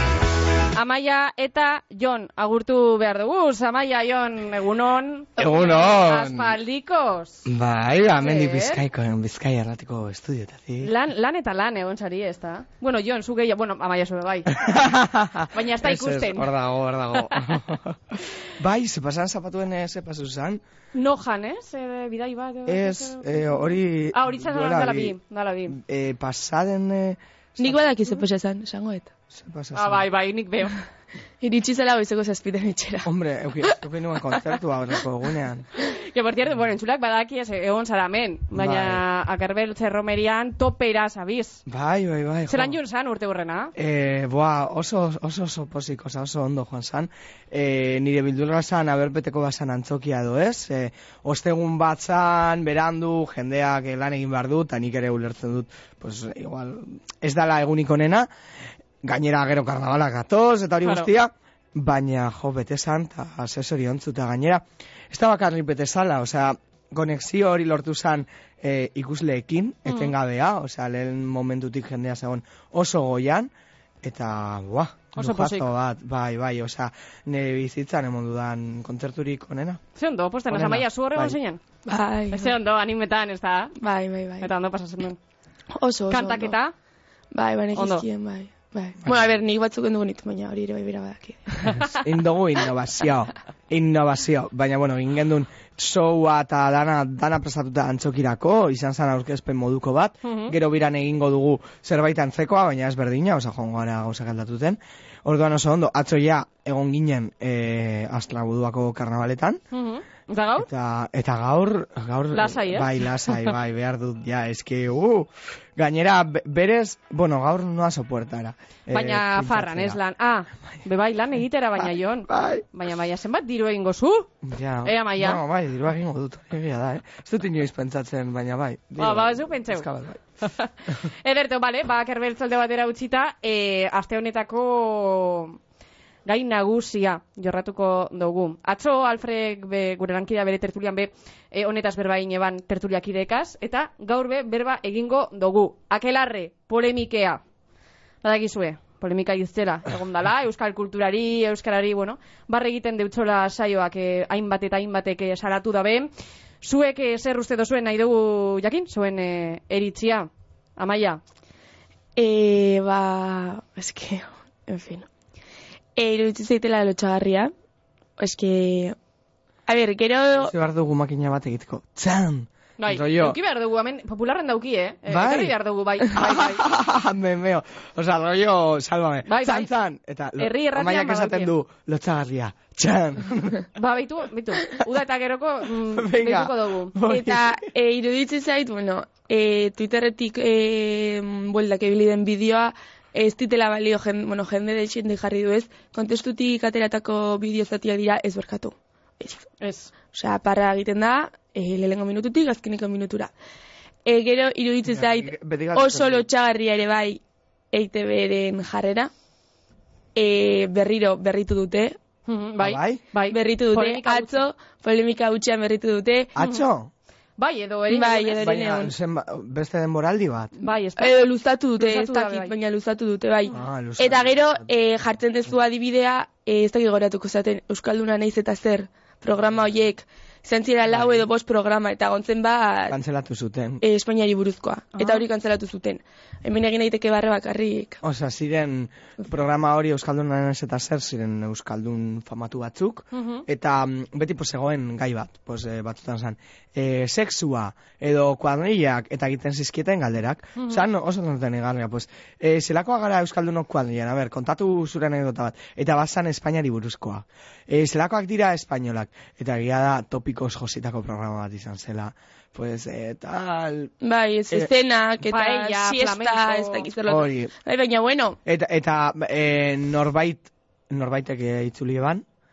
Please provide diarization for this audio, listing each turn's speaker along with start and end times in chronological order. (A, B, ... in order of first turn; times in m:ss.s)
0:00.8-0:07.5 A
0:05.4-0:06.5 B
0:07.5-0:10.9 B
0:08.2-0:08.8 A
0:10.8-0:14.7 A
0:14.5-0:20.6 B
0:15.5-0:16.5 A
0:17.1-0:17.5 A
0:20.9-0:23.6 A
0:22.7-0:25.2 B
0:24.1-0:25.8 A
0:25.7-0:28.2 B
0:27.6-0:29.1 C
0:29.3-0:30.1 B
0:29.7-0:30.8 A
0:31.4-0:33.1 C
0:33.0-0:35.7 B
0:35.9-0:41.6 A
0:38.6-0:39.0 B
0:41.7-0:42.8 B
0:42.5-0:43.7 A
0:43.8-0:58.3 B
0:59.0-1:13.5 B
1:14.0-1:19.8 B
1:15.2-1:15.7 A
1:20.0-1:21.6 A
1:20.5-1:21.4 B
1:21.9-1:22.5 C
1:22.3-1:23.8 A
1:23.8-1:24.5 C
1:24.4-1:25.2 A
1:25.8-1:26.6 C
1:26.1-1:26.7 A
1:27.3-1:31.8 C
1:27.8-1:28.1 A
1:31.6-1:32.0 A
1:31.8-1:49.6 B
1:40.2-1:40.6 A
1:49.7-1:50.7 A
1:50.6-2:00.0 B
1:52.3-1:53.5 A
1:58.9-2:04.3 A
2:01.8-2:02.6 B
2:04.4-2:10.2 B
2:04.8-2:05.4 A
2:09.0-2:09.9 A
2:10.4-2:15.6 A
2:16.2-2:27.4 A
2:28.2-2:36.1 A
2:36.6-2:41.2 A
2:42.2-2:45.1 C
2:46.0-2:47.5 C
2:48.2-2:49.0 C
2:49.7-2:50.5 C
2:50.4-2:53.4 B
2:52.8-2:56.6 A
2:55.1-2:55.5 B
2:56.1-3:03.7 B
2:59.3-2:59.7 A
3:00.4-3:01.5 A
3:03.7-3:07.0 A
3:05.9-3:07.6 B
3:07.1-3:19.5 C
3:19.6-3:19.9 A
3:20.1-3:23.3 C
3:24.1-3:27.2 C
3:24.9-3:26.3 B
3:27.7-3:29.1 C
3:30.2-3:32.0 C
3:32.3-3:34.4 A
3:32.6-3:33.0 B
3:33.3-3:36.3 C
3:36.4-3:36.9 B
3:36.4-3:36.6 A
3:37.4-3:38.4 A
3:37.9-3:38.9 C
3:38.4-3:40.5 B
3:40.6-3:41.2 A
3:41.0-3:53.0 C
3:41.8-3:42.5 A
3:43.5-3:44.6 B
3:50.9-3:51.3 B
3:52.9-3:53.8 B
3:53.8-3:58.0 C
3:55.0-3:55.2 A
3:58.0-4:23.9 B
4:03.1-4:03.4 A
4:10.6-4:10.8 A
4:24.0-4:28.4 C
4:25.2-4:26.9 A
4:27.1-4:27.5 B
4:28.4-4:32.2 B